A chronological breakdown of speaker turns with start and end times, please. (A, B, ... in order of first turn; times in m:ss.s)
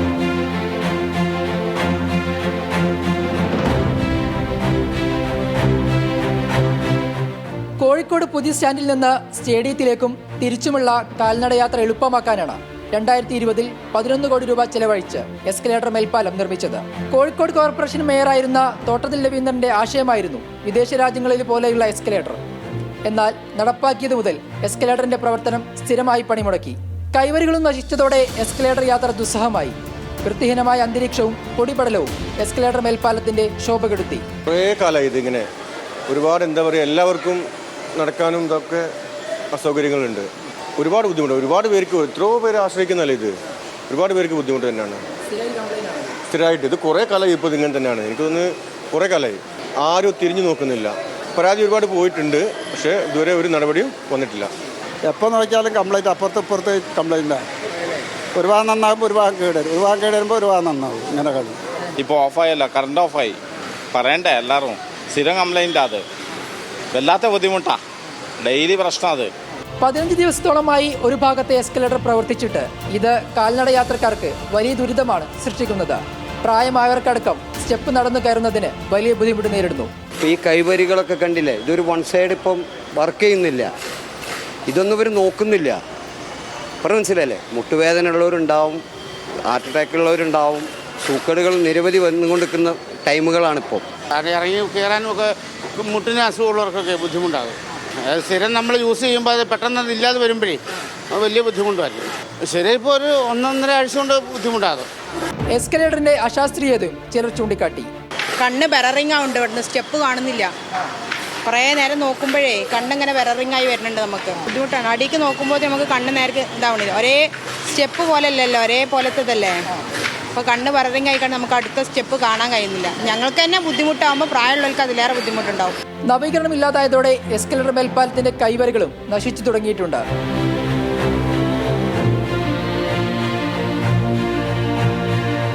0:07.8-0:22.4 A
0:23.1-0:34.2 A
0:34.4-0:35.5 B
0:36.1-0:38.9 B
0:39.5-0:43.3 B
0:43.9-0:45.0 B
0:45.3-0:46.1 A
0:46.3-0:54.5 B
0:55.1-0:57.4 C
0:58.3-1:01.6 C
1:02.0-1:03.4 D
1:03.9-1:06.0 D
1:06.9-1:07.8 D
1:08.4-1:09.3 D
1:09.8-1:19.9 A
1:20.2-1:23.7 E
1:24.7-1:25.8 E
1:26.8-1:28.8 E
1:29.4-1:33.9 E
1:34.1-1:44.9 F
1:45.6-1:47.9 A
1:48.4-1:50.5 G
1:51.4-1:59.6 G
2:00.3-2:05.7 G
2:06.1-2:10.0 A